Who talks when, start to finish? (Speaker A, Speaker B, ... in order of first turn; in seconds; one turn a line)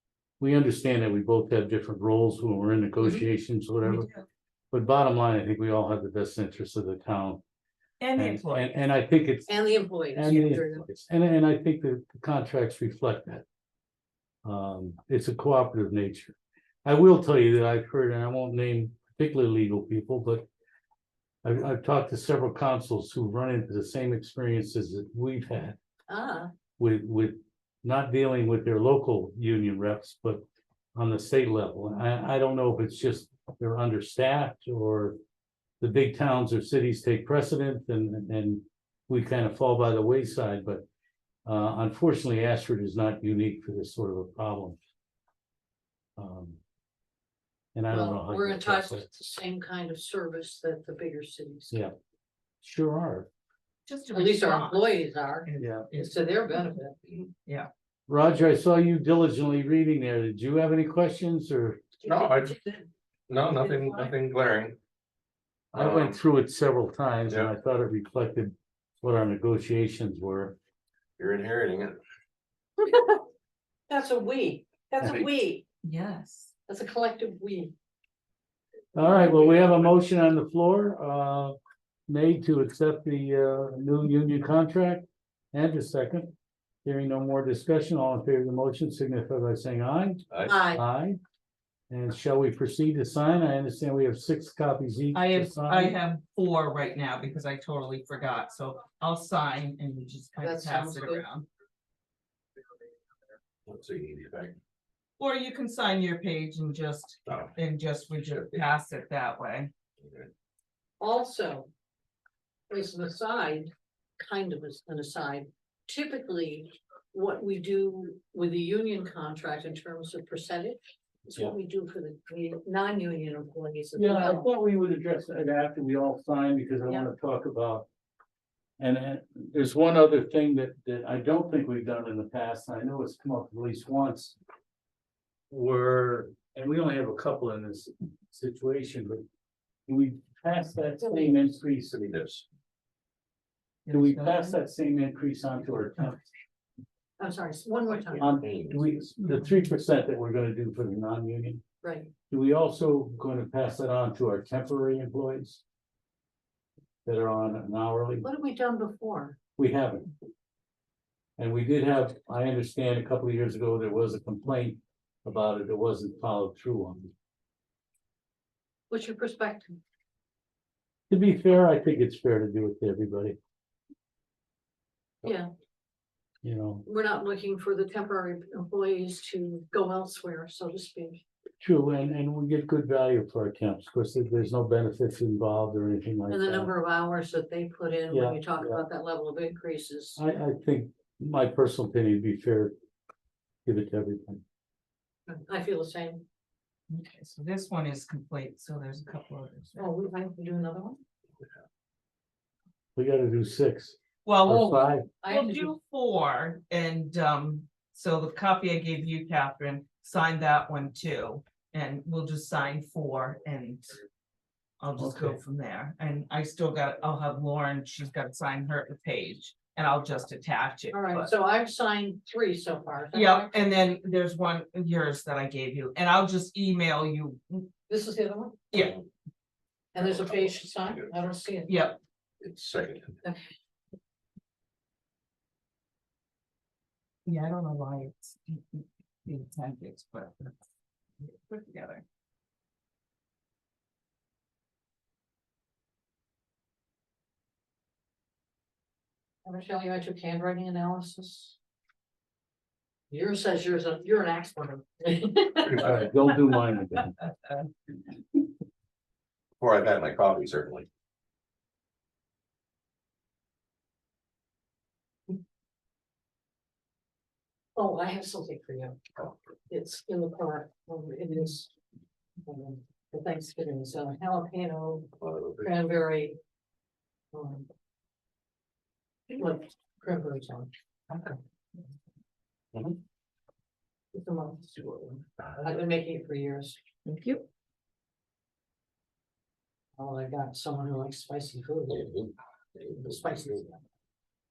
Speaker A: 0.4-4.1
Speaker B: 3.8-4.2
Speaker A: 4.7-7.4
Speaker B: 8.0-8.8
Speaker A: 8.1-9.6
Speaker C: 9.5-10.8
Speaker A: 10.1-13.4
Speaker A: 14.4-20.4
Speaker A: 21.4-25.8
Speaker C: 26.1-26.5
Speaker A: 26.8-30.4
Speaker A: 30.9-35.1
Speaker A: 35.8-40.8
Speaker A: 41.4-44.8
Speaker A: 46.2-46.6
Speaker A: 47.7-49.1
Speaker C: 47.9-51.8
Speaker A: 52.6-53.3
Speaker B: 53.9-56.1
Speaker C: 54.1-57.0
Speaker A: 55.6-55.9
Speaker A: 58.1-61.8
Speaker D: 62.0-62.6
Speaker D: 63.3-64.8
Speaker A: 65.7-70.5
Speaker D: 65.7-66.2
Speaker D: 71.2-72.0
Speaker C: 72.8-73.2
Speaker C: 73.9-75.6
Speaker B: 75.8-76.5
Speaker C: 76.7-77.7
Speaker A: 78.9-81.5
Speaker A: 82.1-86.3
Speaker A: 86.8-91.2
Speaker D: 90.3-90.5
Speaker C: 90.5-90.8
Speaker A: 91.9-96.0
Speaker B: 95.1-101.5
Speaker C: 100.4-101.2
Speaker D: 103.7-104.5
Speaker B: 105.2-109.7
Speaker D: 107.2-107.5
Speaker D: 108.3-108.6
Speaker D: 110.0-110.3
Speaker C: 111.0-111.7
Speaker C: 112.7-124.5
Speaker A: 124.0-127.9
Speaker A: 128.8-134.3
Speaker A: 135.5-139.2
Speaker A: 139.9-141.9
Speaker D: 141.9-142.4
Speaker B: 143.8-144.6
Speaker A: 143.9-146.3
Speaker C: 147.2-148.3
Speaker A: 148.1-151.6
Speaker D: 148.4-148.8
Speaker C: 151.8-152.1
Speaker A: 152.3-155.6
Speaker A: 157.0-158.2
Speaker C: 158.2-159.4
Speaker A: 159.6-160.1
Speaker A: 161.4-167.1
Speaker C: 168.9-169.8
Speaker A: 171.1-173.4
Speaker C: 175.2-175.5
Speaker A: 176.4-176.8
Speaker C: 176.8-181.2
Speaker A: 181.6-186.7
Speaker C: 186.3-190.2
Speaker A: 188.1-188.8
Speaker A: 190.2-192.7
Speaker A: 193.6-194.4
Speaker C: 195.3-196.2
Speaker B: 196.9-199.9
Speaker C: 199.8-201.0
Speaker A: 202.9-205.1
Speaker B: 204.2-214.0
Speaker C: 205.2-205.7
Speaker B: 214.8-221.3
Speaker A: 215.0-215.4
Speaker C: 220.9-223.5
Speaker B: 223.1-227.7
Speaker C: 227.9-228.6
Speaker B: 228.7-229.0
Speaker C: 229.9-231.8
Speaker D: 229.9-231.1
Speaker B: 231.7-232.0
Speaker D: 232.4-233.2
Speaker B: 237.2-240.5
Speaker B: 241.2-242.0
Speaker C: 249.4-251.6
Speaker C: 253.1-256.2
Speaker A: 255.7-257.1
Speaker D: 259.6-260.9
Speaker C: 267.7-269.0
Speaker C: 269.7-271.7
Speaker C: 272.4-276.4
Speaker D: 275.2-275.7
Speaker C: 277.3-277.7
Speaker C: 279.3-280.7
Speaker C: 284.1-286.8
Speaker B: 287.1-287.4
Speaker C: 290.0-292.1
Speaker D: 291.9-293.5
Speaker C: 292.9-293.8